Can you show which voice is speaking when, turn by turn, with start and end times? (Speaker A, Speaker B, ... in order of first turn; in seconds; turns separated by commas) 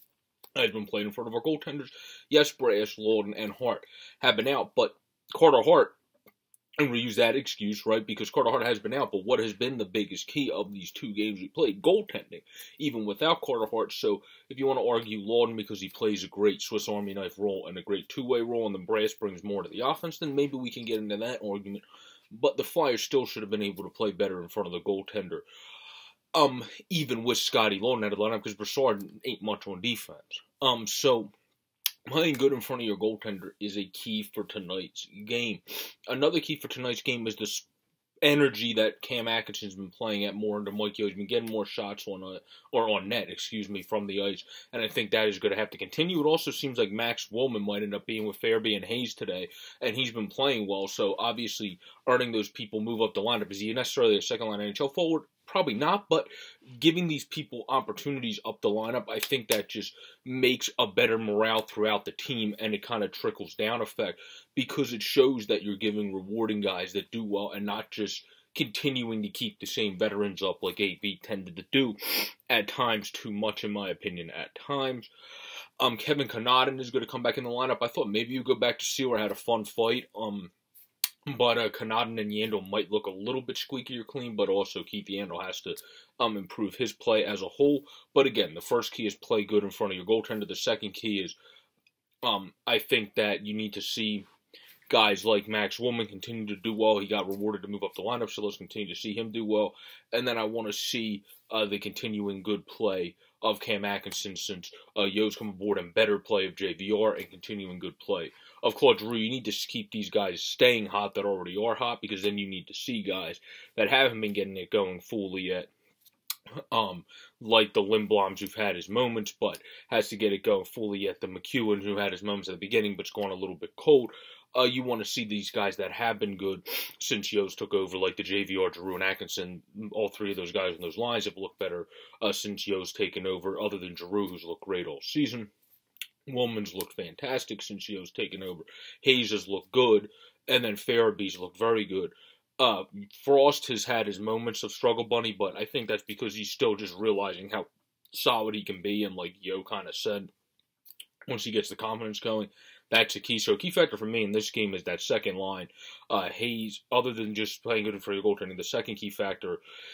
Speaker A: 0.6-6.0, Speaker A: 6.8-25.4, Speaker A: 26.3-31.3, Speaker A: 32.1-37.7, Speaker A: 38.2-75.1, Speaker A: 75.8-80.5, Speaker A: 81.3-91.4, Speaker A: 92.2-94.3, Speaker A: 94.9-115.7, Speaker A: 116.7-135.5, Speaker A: 136.3-150.3, Speaker A: 151.3-159.6